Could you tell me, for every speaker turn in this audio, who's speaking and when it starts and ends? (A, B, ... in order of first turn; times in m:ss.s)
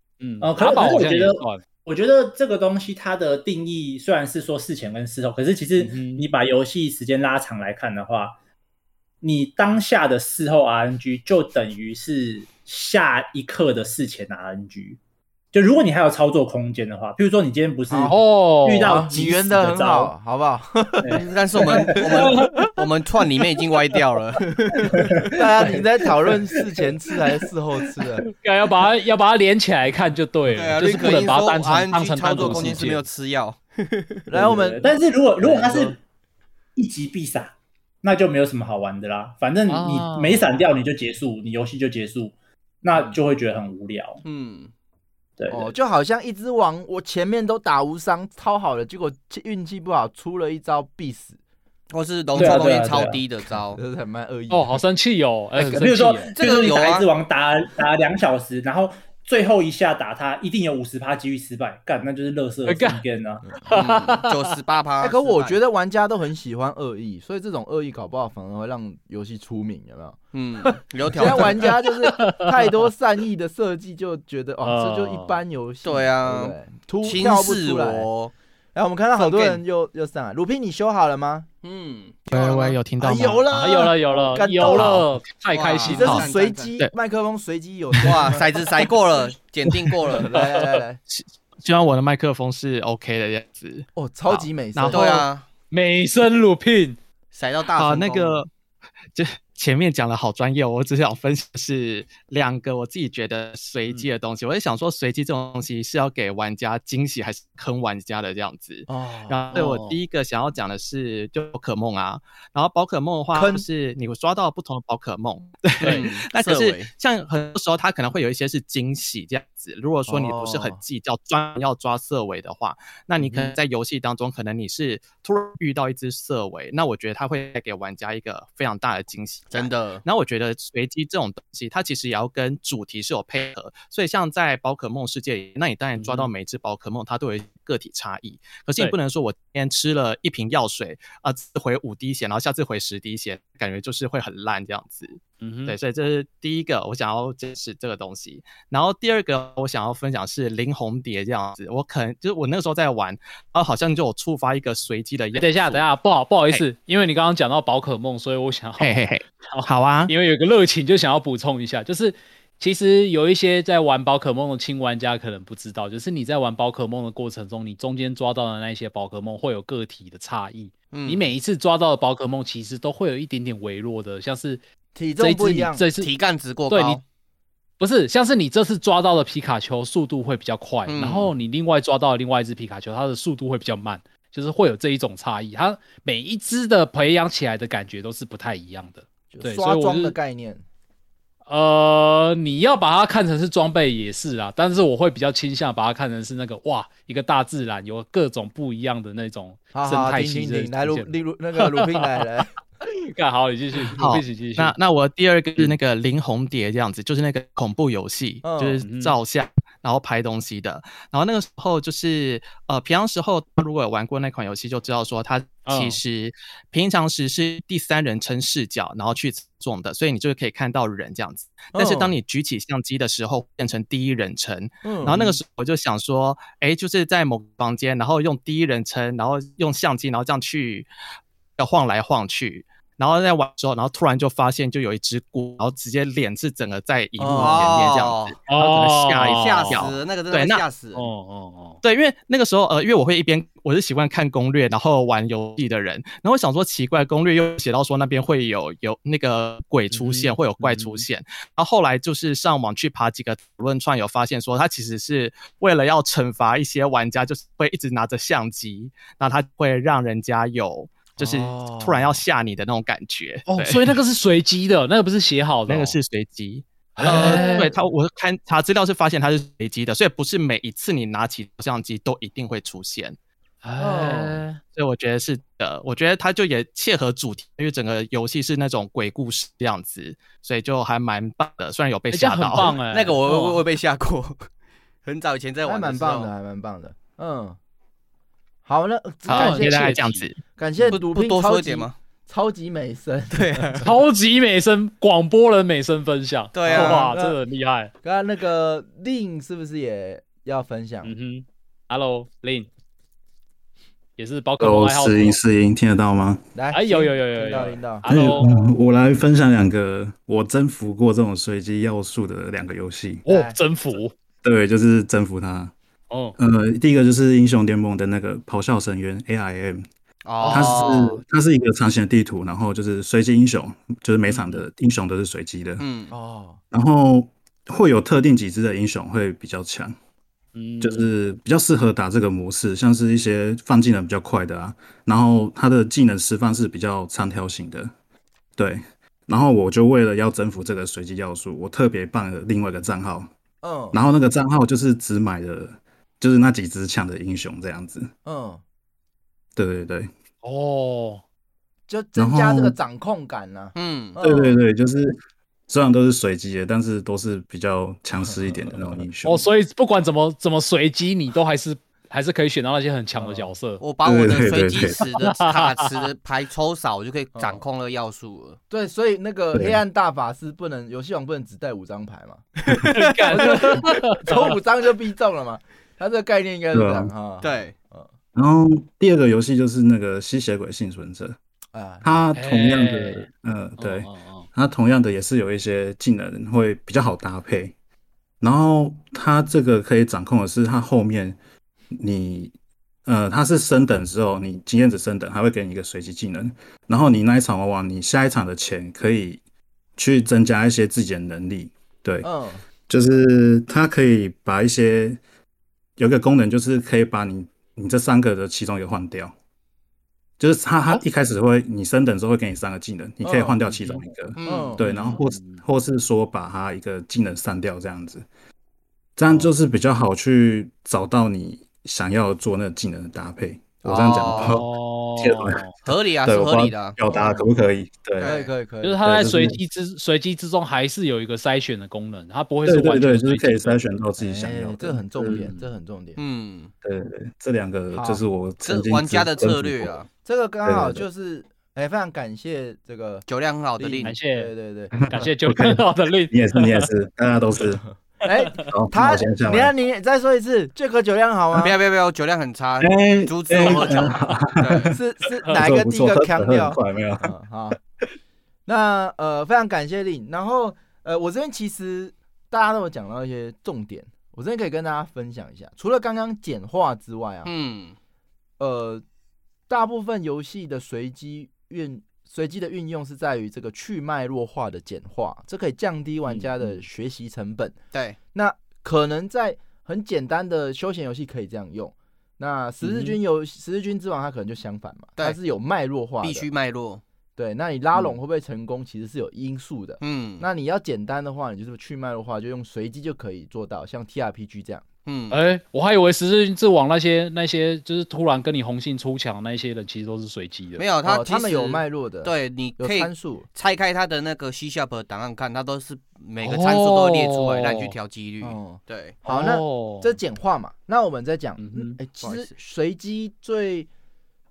0:00.2-0:01.6 A
0:00.4-0:08.3 B
0:05.8-0:06.3 A
0:09.2-0:15.0 B
0:15.5-0:20.1 B
0:17.9-0:18.2 C
0:18.1-0:19.1 A
0:18.8-0:21.2 C
0:21.1-0:24.8 D
0:21.9-0:22.2 B
0:25.3-0:28.2 C
0:28.3-0:33.0 A
0:30.5-0:34.3 D
0:34.3-0:34.9 C
0:34.3-0:36.0 B
0:35.4-0:35.9 C
0:36.8-0:44.2 B
0:39.7-0:40.5 A
0:44.2-0:44.7 D
0:45.4-0:45.7 B
0:45.5-0:51.4 C
0:51.9-0:53.8 D
0:52.4-0:53.2 B
0:53.7-0:54.8 C
0:54.5-0:56.3 A
0:55.6-1:03.4 B
0:56.4-0:57.1 D
1:02.6-1:03.0 A
1:03.7-1:04.5 A
1:03.7-1:05.6 D
1:05.0-1:10.2 C
1:10.3-1:11.7 D
1:11.2-1:18.1 C
1:12.0-1:12.7 A
1:14.6-1:15.4 A
1:15.8-1:18.3 D
1:18.7-1:21.5 C
1:19.2-1:19.6 D
1:21.6-1:22.7 D
1:22.3-1:23.4 E
1:22.3-1:25.0 C
1:23.5-1:26.2 A
1:25.5-1:26.7 D
1:25.8-1:28.4 C
1:28.0-1:30.4 D
1:30.1-1:31.0 C
1:31.1-1:35.0 E
1:33.9-1:35.2 C
1:34.9-1:35.4 D
1:35.7-1:37.0 A
1:37.3-1:38.4 D
1:37.7-1:38.5 E
1:39.1-2:35.8 E
1:48.9-1:49.6 C
1:49.5-1:50.0 A
1:53.3-1:53.6 C
1:55.8-1:56.9 D
2:00.1-2:00.8 C
2:03.2-2:03.5 A
2:09.5-2:10.0 D
2:16.0-2:16.3 A
2:25.4-2:25.8 A
2:35.3-2:54.6 A
2:38.8-2:40.1 E
2:50.9-2:51.3 D
2:54.9-2:55.8 C
2:55.2-2:56.1 A
2:56.0-2:57.0 D
2:56.7-2:57.0 A
2:57.8-3:10.2 A
3:00.9-3:01.3 D
3:09.3-3:10.6 C
3:11.5-3:22.0 A
3:19.7-3:22.5 C
3:22.8-3:24.7 A
3:24.0-3:50.9 E
3:28.4-3:28.8 C
3:28.8-3:29.1 A
3:35.6-3:36.0 A
3:41.7-3:42.1 C
3:44.8-3:45.4 C
3:51.6-4:00.6 E
3:57.2-3:57.8 C
3:57.2-3:58.4 D
3:58.5-3:59.8 A
3:59.2-4:01.1 D
4:01.0-4:01.8 A
4:01.8-4:23.8 E
4:09.9-4:11.1 A
4:21.2-4:22.2 C
4:23.5-4:26.0 A
4:25.7-4:33.2 E
4:27.0-4:27.7 A
4:27.0-4:27.8 C
4:33.6-4:34.6 A
4:33.8-4:34.4 C
4:34.7-4:42.7 E
4:42.1-4:43.6 A
4:42.9-4:44.5 D
4:45.0-4:46.3 D
4:45.6-4:47.6 C
4:48.6-4:53.8 C
4:49.3-4:50.2 A
4:49.3-4:50.4 E
4:50.9-4:52.0 D
4:53.3-4:53.8 D
4:53.8-4:57.9 A
4:56.5-4:57.1 D
4:56.6-4:57.4 C
4:58.0-5:01.1 C
5:01.0-5:02.7 A
5:04.2-5:05.4 A
5:04.6-5:06.5 F
5:06.5-5:08.1 C
5:06.7-5:08.5 A
5:08.0-5:13.2 F
5:13.2-5:14.1 A
5:13.3-5:13.6 C
5:14.4-5:15.7 F
5:16.1-5:16.4 A
5:16.4-5:19.8 F
5:20.2-5:21.2 D
5:20.4-5:21.0 A
5:20.5-5:25.8 F
5:24.3-5:24.6 A
5:25.8-5:26.1 D
5:26.1-5:26.6 C
5:26.7-5:29.9 F
5:30.5-5:31.1 A
5:30.8-5:37.9 F
5:38.6-5:43.3 F
5:43.6-5:44.0 C
5:43.9-5:48.1 F
5:48.2-5:48.6 C
5:49.6-5:50.1 F
5:50.4-5:51.2 A
5:51.9-5:54.6 C
5:52.2-5:52.8 F
5:53.7-5:54.2 D
5:54.2-5:55.2 F
5:55.7-5:59.5 F
5:58.2-5:59.0 C
5:59.2-6:03.8 A
6:03.2-6:03.5 C
6:03.8-6:08.6 D
6:04.0-6:05.1 F
6:05.2-6:05.7 A
6:07.3-6:07.6 C
6:08.7-6:12.5 C
6:09.5-6:09.8 F
6:12.9-6:14.5 A
6:13.3-6:18.1 C
6:16.7-6:17.1 F
6:17.4-6:17.7 D
6:18.3-6:21.4 F
6:21.7-6:22.3 C
6:22.0-6:27.7 F
6:22.3-6:23.3 A
6:23.8-6:24.5 A
6:28.4-6:31.4 F
6:31.9-6:32.5 F
6:33.0-6:39.4 F
6:40.0-6:42.3 F
6:42.2-6:42.6 C
6:42.9-6:45.2 F
6:46.0-6:49.3 F
6:50.4-6:58.2 F
6:53.2-6:53.6 C
6:53.7-6:54.1 A
6:54.4-6:54.8 D
6:54.4-6:54.8 C
6:54.8-6:55.6 A
6:59.2-7:05.6 F
7:03.8-7:04.6 D
7:04.4-7:05.7 A
7:05.8-7:07.0 D
7:06.2-7:08.4 F
7:08.2-7:08.5 D
7:08.2-7:09.0 C
7:08.8-7:13.8 A
7:09.0-7:09.6 F
7:12.6-7:15.5 F
7:14.2-7:16.2 C
7:15.2-7:15.7 A
7:16.2-7:16.7 D
7:16.8-7:20.0 F
7:17.9-7:18.2 C
7:18.6-7:20.1 D
7:20.2-7:23.2 C
7:20.6-7:21.0 F
7:23.3-7:24.1 D
7:23.8-7:24.9 C
7:24.0-7:26.9 A
7:25.0-7:27.8 F
7:28.2-7:31.8 C
7:28.7-7:29.7 F
7:31.5-7:34.9 D
7:32.8-7:37.3 F
7:34.9-7:37.8 C
7:38.7-7:47.5 C
7:47.4-7:48.0 D
7:48.6-7:49.0 C
7:49.7-7:57.8 C
7:56.3-7:56.8 A
7:58.3-8:06.5 C
8:02.8-8:03.1 A
8:06.2-8:07.0 D
8:07.4-8:14.8 C
8:10.0-8:10.4 D
8:15.0-8:15.4 D
8:15.3-8:20.8 A
8:20.8-8:29.2 D
8:21.0-8:23.4 C
8:26.4-8:27.9 A
8:28.4-8:33.9 C
8:29.2-8:30.2 A
8:31.6-8:32.0 A
8:32.2-8:32.5 D